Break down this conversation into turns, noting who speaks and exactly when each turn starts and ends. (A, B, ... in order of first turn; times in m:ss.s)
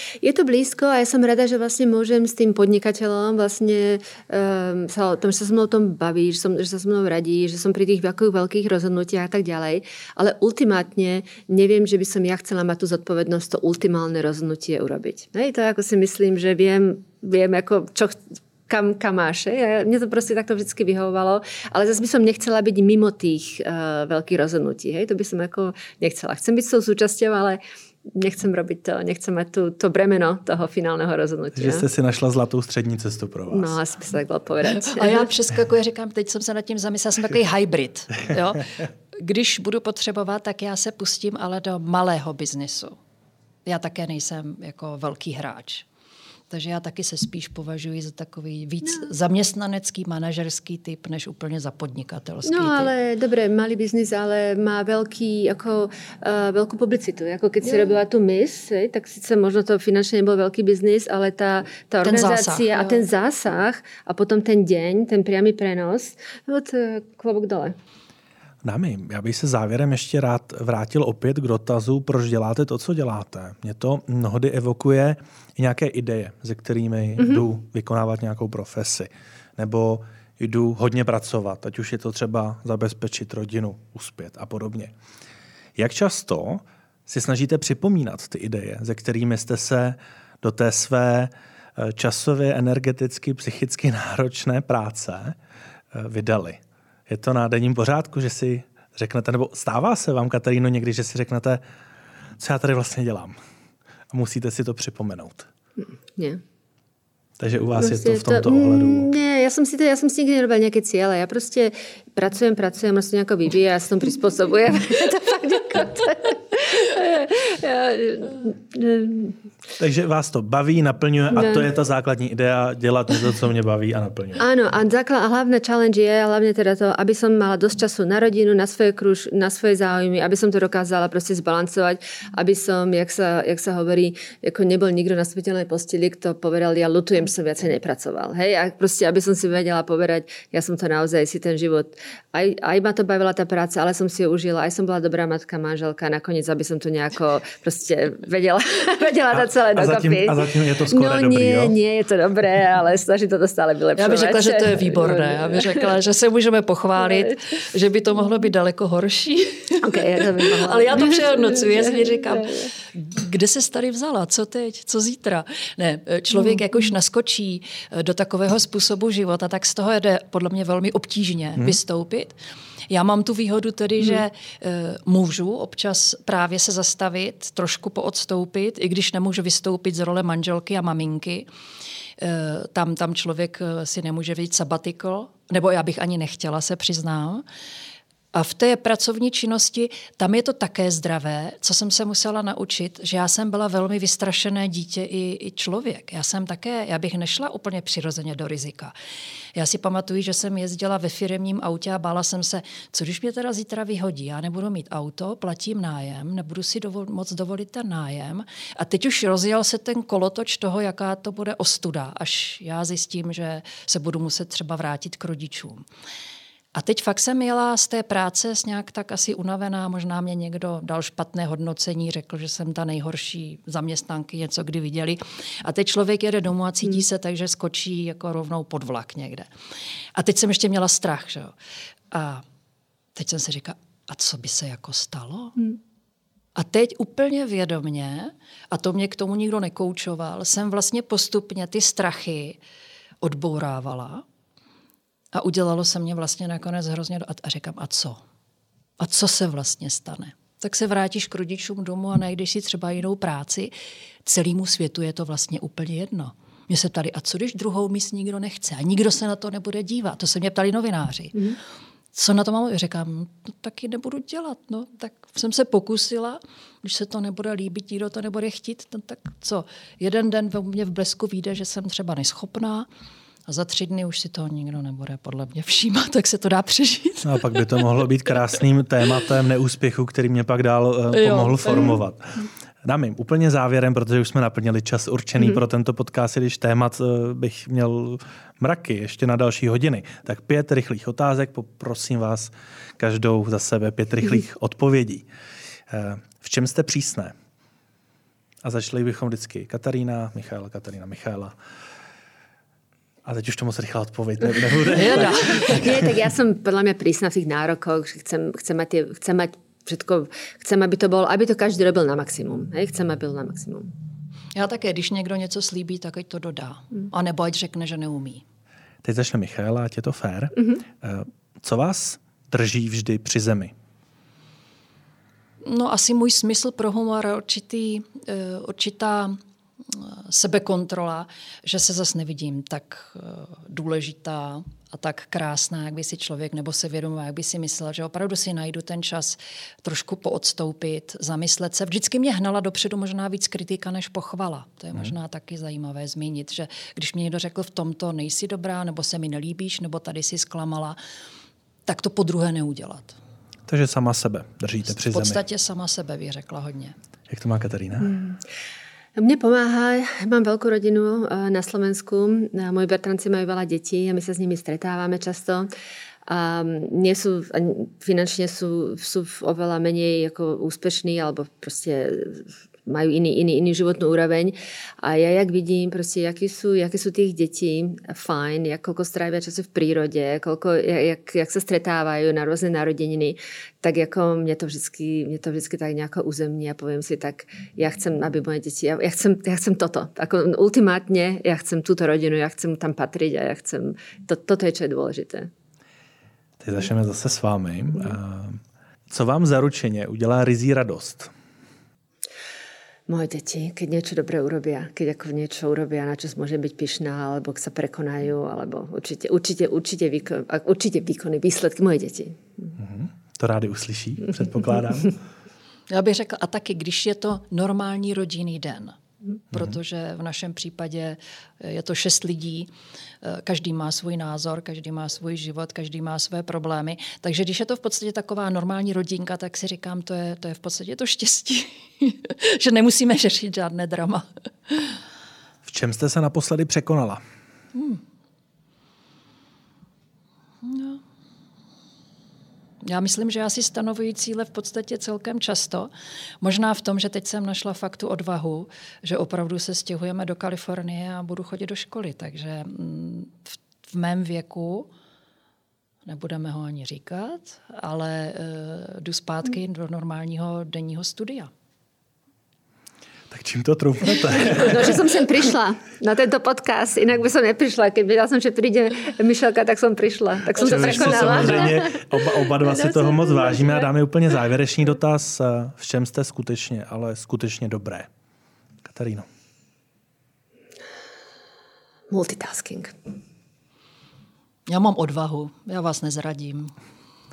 0:00.2-0:31.9 A
0:31.6-0:33.8 B
0:33.5-0:35.3 A
0:34.6-0:43.0 C
0:43.7-0:45.9 C
0:46.5-0:52.9 C
0:52.5-1:07.8 A
1:02.0-1:03.0 C
1:08.6-1:24.9 B
1:17.2-1:17.4 A
1:25.8-1:35.4 B
1:35.9-1:41.6 B
1:42.4-1:43.4 B
1:44.1-1:45.5 B
1:46.2-1:46.4 A
1:47.4-1:49.1 B
1:47.8-1:59.4 A
1:59.8-2:04.4 B
2:01.3-2:01.6 A
2:04.4-2:35.9 A
2:29.3-2:31.8 B
2:34.0-2:52.4 C
2:37.1-2:37.4 A
2:39.8-2:42.7 A
2:46.4-2:46.6 A
2:52.9-3:01.5 C
3:02.2-3:07.4 C
3:08.3-3:18.9 C
3:19.6-3:35.8 C
3:36.7-3:49.5 C
3:50.2-3:51.5 C
3:52.1-3:52.4 C
3:53.2-3:55.7 C
3:56.6-4:02.6 C
4:03.2-4:04.2 C
4:05.3-4:08.2 C
4:09.0-4:13.7 C
4:14.2-4:21.6 C
4:22.1-4:32.9 C
4:33.5-4:37.4 C
4:37.2-4:55.3 B
4:41.1-4:42.0 C
4:55.9-4:57.3 B
4:58.6-5:01.5 B
5:03.2-5:06.2 B
5:04.9-5:05.9 C
5:05.5-5:13.9 A
5:14.6-5:18.4 C
5:19.0-5:23.7 B
5:25.6-5:51.0 C
5:51.9-5:53.2 C
5:53.7-5:55.4 B
5:55.0-5:57.0 C
5:57.3-5:58.1 B
5:58.0-5:58.4 A
5:59.2-6:05.7 A
6:06.3-6:35.5 A
6:36.6-6:41.3 B
6:43.1-6:52.7 A
6:52.8-6:55.2 B
6:55.9-6:59.0 C
6:59.5-7:02.7 C
6:59.5-6:59.8 B
7:03.2-7:15.0 C
7:15.6-7:17.2 B
7:17.7-7:18.0 C
7:20.6-7:21.0 C
7:22.8-7:25.9 C
7:26.4-7:34.9 C
7:36.1-7:41.5 C
7:43.3-7:45.0 B
7:44.4-7:53.9 A
7:50.6-7:58.1 B
7:58.8-7:59.3 B
8:02.1-8:03.0 A
8:04.7-8:06.7 C